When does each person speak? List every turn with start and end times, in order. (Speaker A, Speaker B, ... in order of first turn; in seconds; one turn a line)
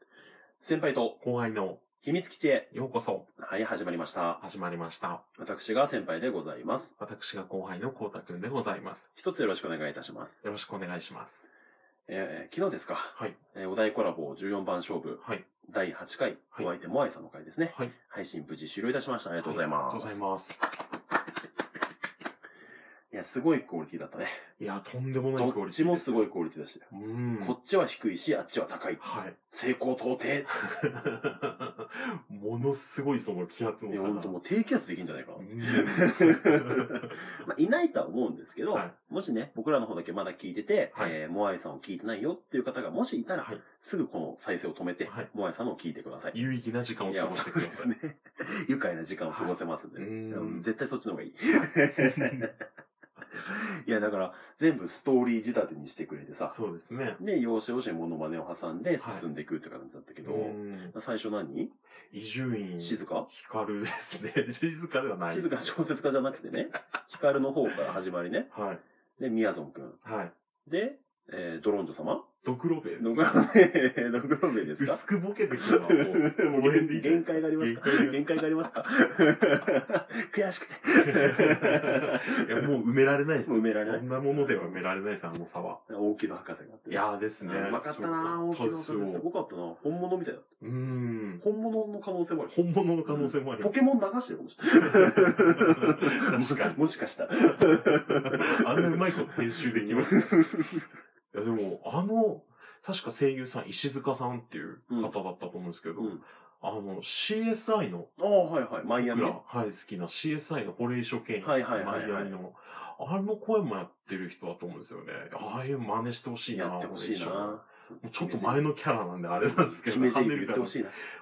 Speaker A: 0.6-1.2
Speaker B: 1.2-1.8
Speaker A: 2.0-2.7
Speaker B: 2.7-3.3
Speaker A: 3.3-4.4
Speaker B: 4.4-5.2
Speaker A: 5.4-7.0
Speaker B: 7.0-9.1
Speaker A: 9.1-10.4
Speaker B: 10.4-11.5
Speaker A: 12.1-20.2
Speaker B: 17.7-17.9
Speaker B: 19.4-20.6
Speaker A: 23.1-24.4
Speaker B: 24.6-26.2
Speaker A: 25.4-26.9
Speaker B: 26.9-27.6
Speaker A: 27.4-30.5
Speaker B: 29.0-29.4
Speaker B: 30.5-34.4
Speaker A: 33.9-46.4
Speaker B: 35.4-37.2
Speaker B: 45.0-45.3
Speaker B: 46.3-47.9
Speaker A: 47.0-52.5
Speaker B: 49.3-50.7
Speaker B: 52.0-52.5
Speaker A: 53.3-56.5
Speaker B: 56.5-57.2
Speaker A: 57.2-61.7
Speaker B: 59.0-59.2
Speaker B: 60.2-60.9
Speaker B: 62.1-65.9
Speaker A: 62.8-63.3
Speaker A: 65.3-68.5
Speaker B: 68.5-68.8
Speaker A: 69.2-70.0
Speaker B: 70.0-70.3
Speaker A: 70.6-72.3
Speaker B: 72.4-73.5
Speaker A: 73.0-75.0
Speaker B: 74.7-78.4
Speaker A: 75.6-82.6
Speaker B: 81.0-85.8
Speaker A: 83.5-84.8
Speaker A: 85.9-90.5
Speaker B: 86.9-89.2
Speaker B: 90.6-91.4
Speaker A: 91.4-100.8
Speaker B: 92.5-93.7
Speaker B: 94.8-96.8
Speaker B: 97.6-100.4
Speaker B: 101.3-108.1
Speaker A: 104.9-105.1
Speaker A: 106.0-106.2
Speaker A: 108.2-109.4
Speaker B: 109.0-120.8
Speaker A: 111.4-112.3
Speaker A: 116.5-118.6
Speaker A: 119.4-121.0